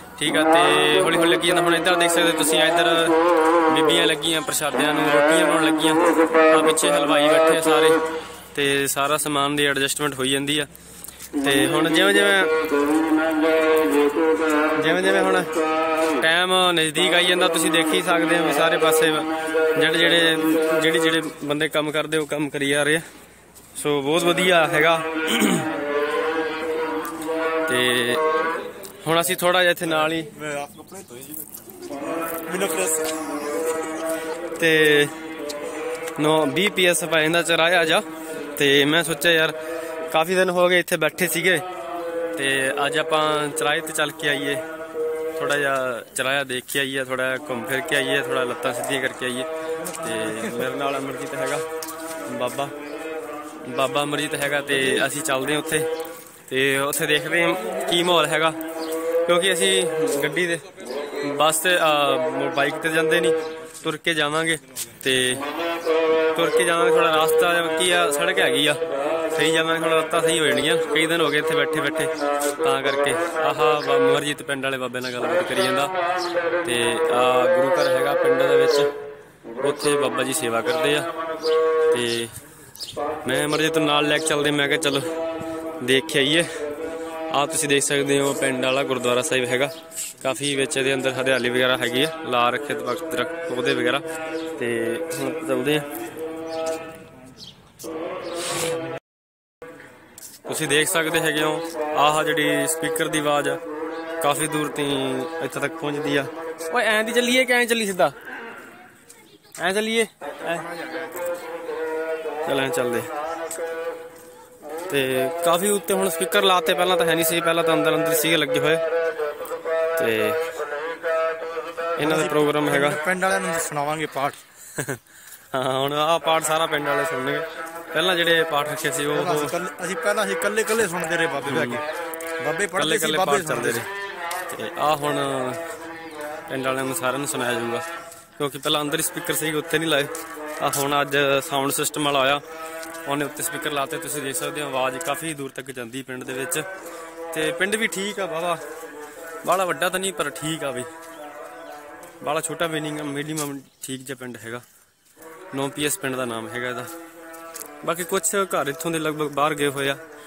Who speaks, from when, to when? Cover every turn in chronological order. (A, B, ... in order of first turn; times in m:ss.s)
0:00.2-0:03.2 A
0:03.7-0:08.0 A
0:08.5-0:10.7 A
0:11.4-0:12.5 A
0:14.8-0:15.5 A
0:16.2-0:23.0 A
0:23.8-0:25.7 A
0:27.7-0:28.2 A
0:29.0-0:30.3 A
0:30.2-0:31.4 B
0:32.4-0:33.2 B
0:34.6-0:35.1 A
0:36.2-0:38.0 A
0:38.6-0:39.6 A
0:40.1-0:41.6 A
0:42.3-0:44.6 A
0:45.4-0:51.6 A
0:52.3-0:52.7 A
0:53.6-0:55.9 A
0:56.5-0:58.6 A
0:59.2-1:05.4 A
1:06.3-1:15.9 A
1:16.6-1:18.9 A
1:19.6-1:21.1 A
1:21.9-1:22.3 A
1:23.2-1:25.1 A
1:25.8-1:26.5 A
1:27.3-1:34.0 A
1:34.6-1:35.9 A
1:40.4-1:43.6 A
1:44.2-1:48.1 A
1:49.6-1:50.7 A
1:52.4-1:53.1 A
1:54.9-1:58.8 A
2:00.0-2:00.4 A
2:02.0-2:03.0 A
2:02.0-2:04.4 B
2:04.7-2:05.0 A
2:05.5-2:09.5 A
2:09.1-2:11.8 B
2:11.4-2:11.8 A
2:12.4-2:13.9 B
2:12.8-2:13.9 A
2:14.5-2:15.6 A
2:16.5-2:17.8 A
2:18.4-2:22.4 A
2:23.0-2:26.6 A
2:27.3-2:28.6 A
2:29.4-2:30.9 A
2:32.2-2:34.6 A
2:35.5-2:36.9 A
2:37.8-2:40.0 A